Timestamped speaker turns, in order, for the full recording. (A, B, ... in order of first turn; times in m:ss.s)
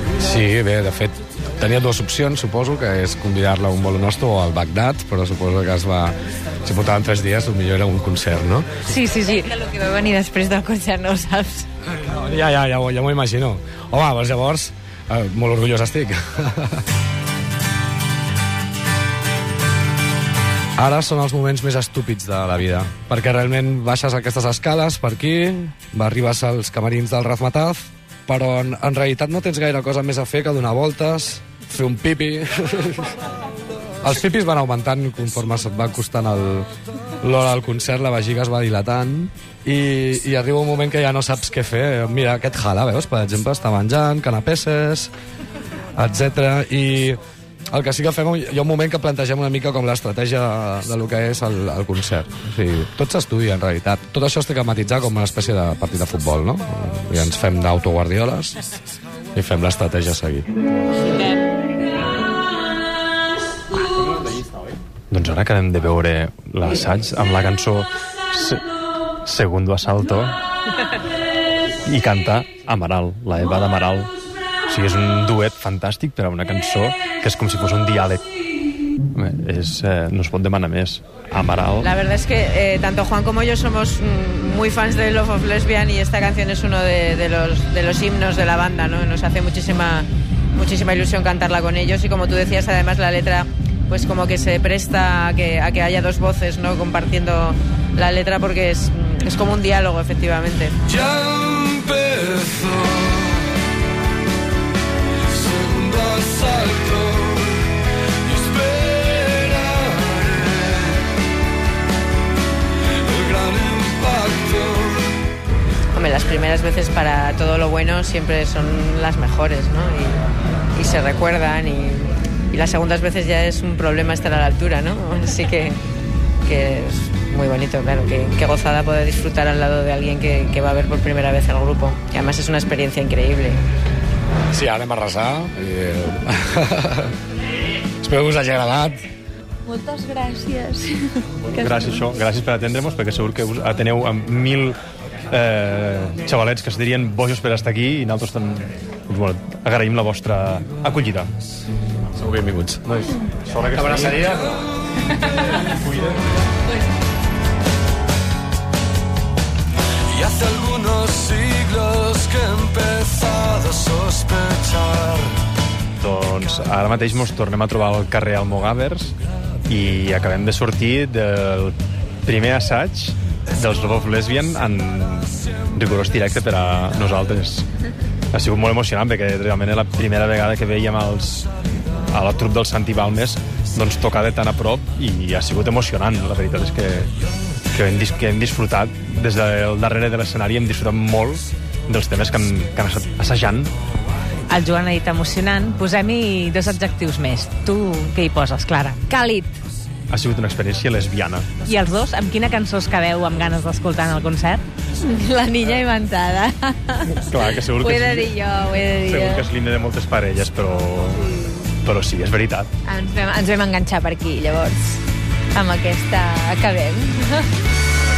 0:00.2-0:08.8 A
0:08.9-0:11.7 B
0:11.9-0:16.8 A
0:20.8-0:33.1 A
0:34.0-0:36.7 A
0:37.2-0:45.1 A
0:46.0-0:47.2 A
0:47.7-0:58.6 A
0:59.4-1:00.5 A
1:05.1-1:08.6 C
1:09.2-1:10.4 C
1:11.9-1:14.1 C
1:14.7-1:18.2 C
1:19.1-1:21.8 C
1:21.8-1:40.8 D
1:40.9-1:43.5 E
1:45.3-1:47.7 E
1:48.3-1:51.0 E
1:53.1-1:55.1 E
1:55.9-2:00.2 D
2:00.8-2:05.8 D
2:06.4-2:13.6 D
2:14.5-2:17.2 A
2:18.0-2:19.0 A
2:19.6-2:22.0 B
2:21.5-2:24.8 C
2:25.3-2:31.3 C
2:32.2-2:33.2 A
2:33.5-2:34.5 C
2:33.7-2:34.5 A
2:40.1-2:45.3 E
2:46.0-2:49.2 C
2:49.7-2:57.7 C
2:58.3-3:01.5 C
3:02.1-3:07.1 C
3:07.7-3:13.7 C
3:14.5-3:19.0 F
3:19.1-3:19.6 B
3:20.1-3:21.5 C
3:21.6-3:24.6 F
3:25.0-3:29.5 B
3:27.1-3:28.3 C
3:29.0-3:31.3 C
3:31.8-3:32.7 C
3:32.9-3:35.0 B
3:35.6-3:37.5 B